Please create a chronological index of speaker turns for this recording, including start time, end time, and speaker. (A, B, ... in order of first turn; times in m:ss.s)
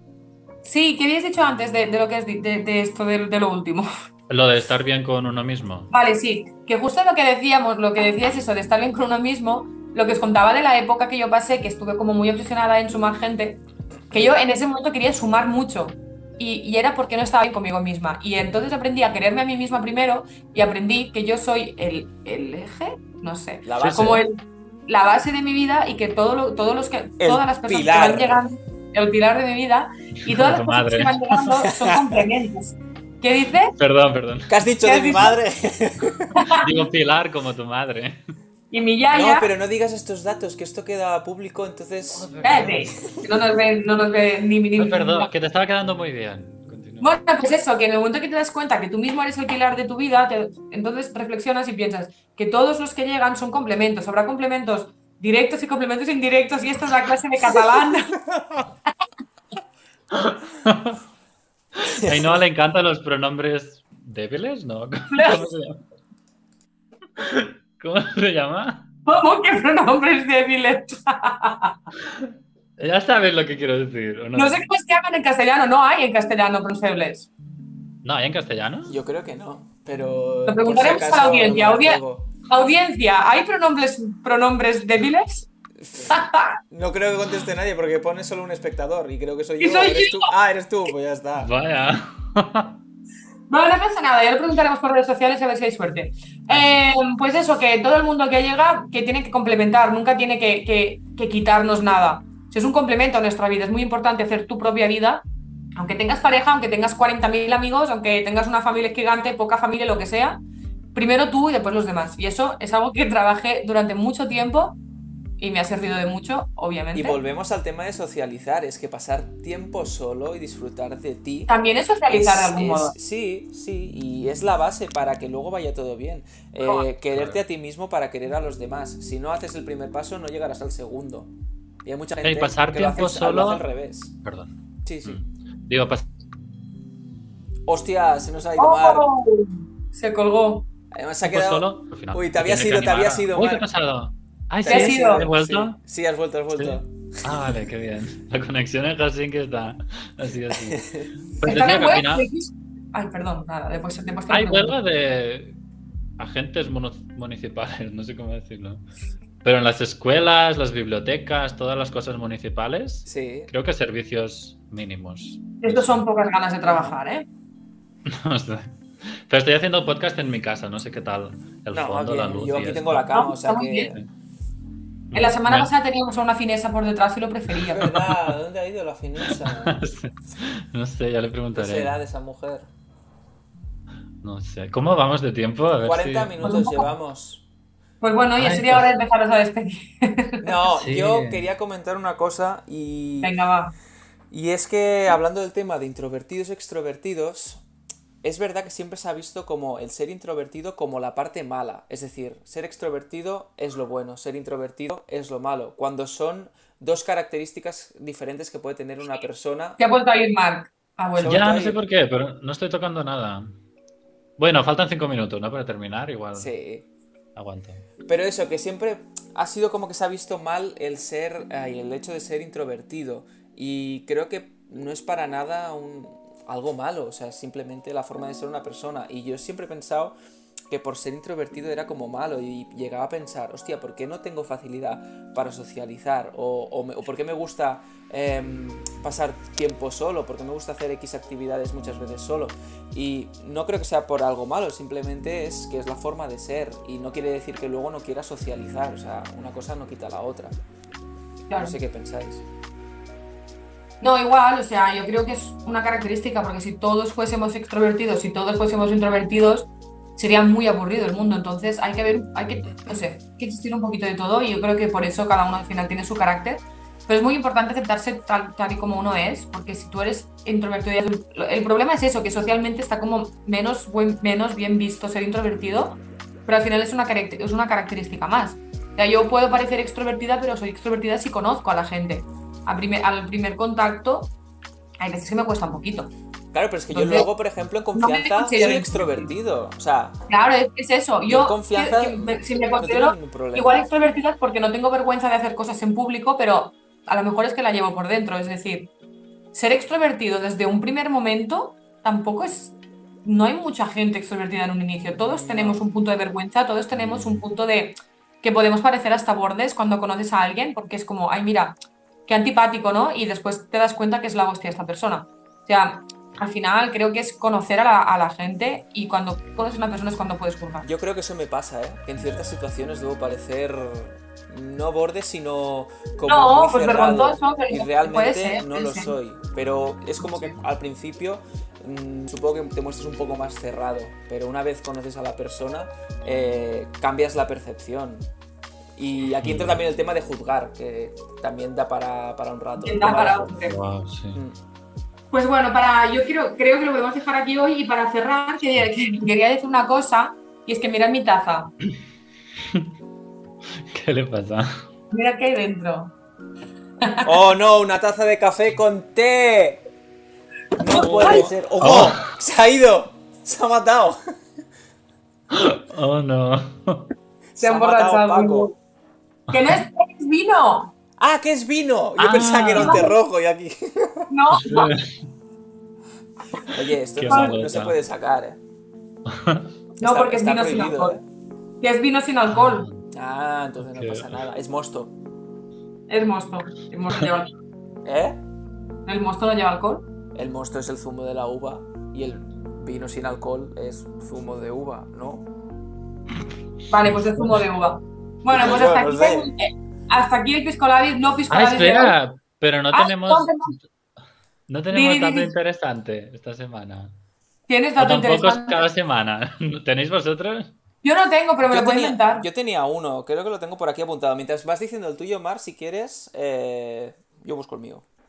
0:00.6-0:03.9 A
0:04.3-0:05.9 B
0:05.9-0:33.8 A
0:23.6-0:24.2 C
0:23.8-0:24.1 B
0:27.2-0:28.5 C
0:30.3-0:31.5 B
0:31.7-0:32.2 C
0:33.8-0:34.6 B
0:34.5-0:36.4 C
0:34.8-0:35.4 A
0:36.4-0:36.7 A
0:36.6-0:38.2 B
0:38.7-0:39.5 A
0:39.1-0:43.2 C
0:42.2-0:43.0 B
0:42.4-0:45.3 A
0:44.8-0:47.2 B
0:47.0-0:58.2 A
1:00.1-1:01.0 B
1:01.8-1:05.8 B
1:01.9-1:02.4 C
1:05.1-1:05.5 A
1:07.2-1:08.9 B
1:09.1-1:11.8 A
1:12.1-1:14.6 B
1:14.4-1:17.3 A
1:18.0-1:19.0 B
1:18.9-1:22.3 C
1:20.5-1:25.5 A
1:25.8-1:26.2 C
1:26.1-1:26.6 A
1:26.7-1:31.5 C
1:29.6-1:30.3 A
1:31.4-1:32.8 B
1:33.5-1:45.2 A
1:36.5-1:36.8 B
1:45.8-1:50.4 A
1:50.9-1:54.8 A
1:55.4-1:57.2 A
1:56.9-2:01.5 C
2:01.5-2:02.9 A
2:02.1-2:11.3 C
2:07.1-2:07.4 B
2:11.8-2:14.1 C
2:12.2-2:13.6 B
2:14.2-2:14.5 B
2:14.9-2:15.2 C
2:15.0-2:16.1 B
2:17.7-2:19.1 C
2:18.6-2:20.6 A
2:20.9-2:23.6 C
2:21.2-2:25.8 B
2:24.6-2:27.6 C
2:24.7-2:25.3 A
2:26.6-2:32.3 B
2:30.5-2:31.1 C
2:31.4-2:34.8 A
2:34.3-2:35.6 B
2:36.2-2:38.8 B
2:39.4-2:46.0 B
2:43.1-2:43.5 C
2:45.6-2:47.3 A
2:46.7-2:47.0 C
2:48.1-2:48.8 B
2:49.3-2:53.1 B
2:51.7-2:54.0 C
2:53.1-2:53.9 A
2:55.1-2:55.7 B
2:55.1-2:58.0 A
2:57.7-2:59.8 C
2:59.2-3:01.9 B
3:01.5-3:02.7 C
3:04.2-3:06.6 B
3:05.8-3:07.4 C
3:06.4-3:06.8 A
3:08.0-3:10.5 A
3:08.4-3:08.9 B
3:10.4-3:13.4 C
3:10.7-3:11.4 B
3:13.2-3:13.7 A
3:14.3-3:17.6 C
3:18.2-3:29.8 C
3:29.8-3:31.4 A
3:31.2-3:31.8 C
3:31.2-3:33.6 B
3:34.4-3:36.5 B
3:36.4-3:36.9 C
3:37.4-3:37.9 B
3:38.1-3:50.2 C
3:50.7-4:10.6 C
4:11.5-4:11.8 A
4:11.6-4:12.4 C
4:14.0-4:44.3 A
4:45.0-4:46.1 A
4:46.5-4:50.2 C
4:46.9-4:47.3 A
4:48.0-4:49.3 A
4:50.3-4:58.9 A
4:51.3-4:53.9 C
4:59.5-5:11.8 A
5:05.2-5:05.8 C
5:12.3-5:20.9 A
5:20.8-5:38.3 C
5:26.3-5:29.1 A
5:39.0-5:43.5 C
5:39.4-5:39.8 B
5:42.8-5:43.8 A
5:43.7-5:44.4 B
5:45.3-5:51.7 A
5:53.9-5:54.8 B
5:55.1-5:56.1 A
5:57.2-5:59.8 C
6:00.8-6:04.2 C
6:00.9-6:01.5 A
6:00.9-6:02.3 B
6:05.5-6:07.1 B
6:07.5-6:08.7 C
6:07.6-6:08.7 A
6:09.5-6:11.0 A
6:09.5-6:09.8 B
6:11.2-6:14.3 C
6:12.2-6:13.1 B
6:12.8-6:13.1 A
6:14.3-6:15.0 A
6:14.6-6:15.1 B
6:16.7-6:18.6 C
6:16.8-6:18.0 B
6:17.3-6:17.5 A
6:19.3-6:19.7 B
6:20.0-6:21.2 A
6:20.0-6:21.2 C
6:21.8-6:22.9 A
6:22.5-6:23.0 B
6:23.1-6:25.2 C
6:23.9-6:24.4 B
6:26.1-6:27.5 A
6:28.0-6:28.4 C
6:29.1-6:30.1 A
6:30.4-6:35.5 C
6:36.9-6:42.1 A
6:37.1-6:37.5 B
6:38.5-6:39.5 C
6:41.5-6:43.8 B
6:42.9-6:43.8 A
6:44.7-6:47.1 B
6:44.9-6:45.5 A
6:47.7-6:48.8 A
6:48.0-6:50.7 B
6:51.0-6:52.5 A
6:51.6-6:58.0 C